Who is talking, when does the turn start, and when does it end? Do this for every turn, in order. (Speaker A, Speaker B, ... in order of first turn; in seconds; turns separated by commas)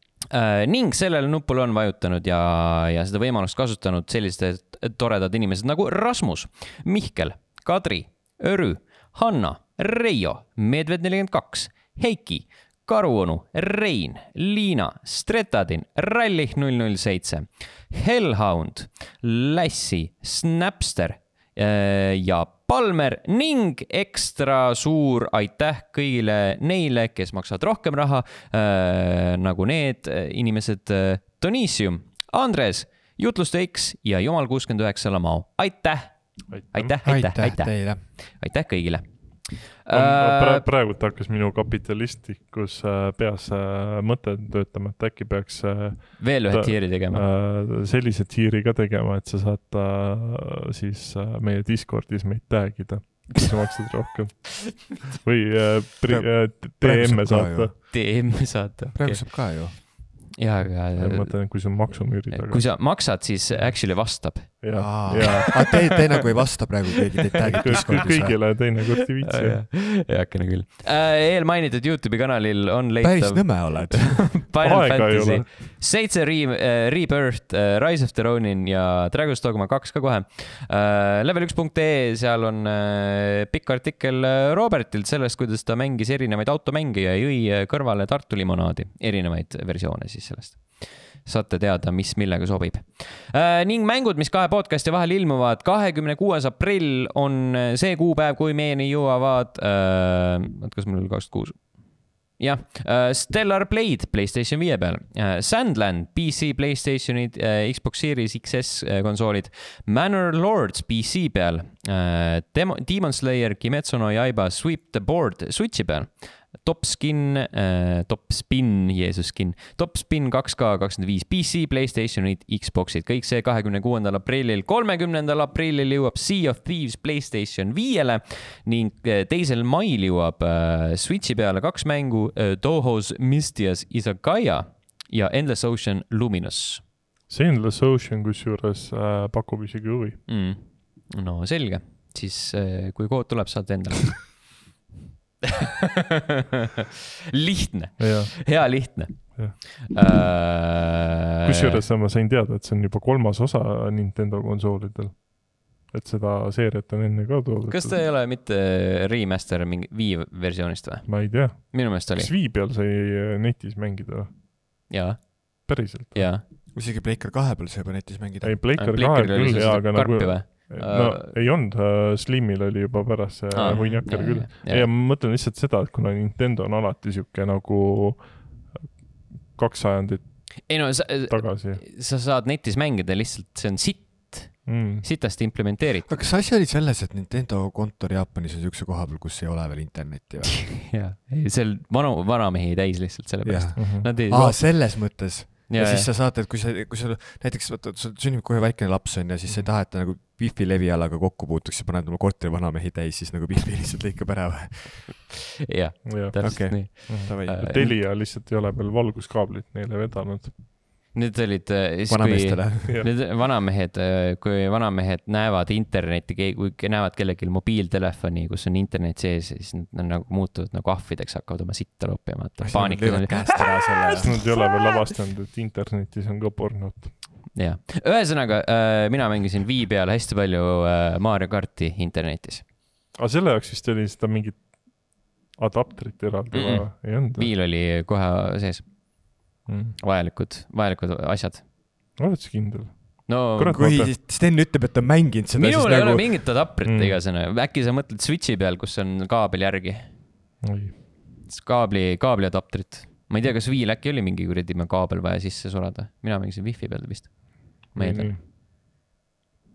Speaker A: 0.3-40.7, Speaker B: 36.5-36.9, Speaker C: 37.0-38.0, Speaker B: 39.9-57.7, Speaker A: 46.2-47.2, Speaker C: 56.0-57.7, Speaker A: 57.9-65.5, Speaker C: 58.9-59.8, Speaker B: 60.9-65.8, Speaker C: 64.8-68.4, Speaker B: 67.4-69.6, Speaker A: 67.5-136.8, Speaker C: 73.0-74.4, Speaker B: 74.6-75.5, Speaker B: 137.3-140.2, Speaker A: 140.3-144.7, Speaker A: 147.3-151.8, Speaker B: 148.0-149.6, Speaker B: 151.4-158.0, Speaker A: 157.7-162.3, Speaker B: 161.1-164.4, Speaker A: 164.9-166.4, Speaker B: 165.7-166.3, Speaker C: 166.7-168.6, Speaker B: 168.4-181.8, Speaker A: 168.8-171.3, Speaker A: 173.5-174.9, Speaker C: 173.7-174.0, Speaker A: 180.7-186.2, Speaker B: 184.6-185.1, Speaker C: 186.1-190.7, Speaker A: 190.6-196.1, Speaker C: 193.4-205.2, Speaker B: 193.8-194.1, Speaker A: 205.7-208.0, Speaker B: 206.0-210.6, Speaker C: 206.4-207.9, Speaker A: 211.1-224.8, Speaker C: 212.1-213.0, Speaker C: 222.6-224.4, Speaker B: 224.2-227.2, Speaker A: 227.5-232.7, Speaker B: 233.1-237.5, Speaker A: 236.5-241.6, Speaker B: 239.7-240.0, Speaker B: 242.2-244.1, Speaker A: 243.3-244.0, Speaker C: 243.7-246.4, Speaker A: 245.6-250.2, Speaker B: 246.8-247.2, Speaker B: 250.6-251.0, Speaker A: 251.4-258.4, Speaker B: 257.9-258.4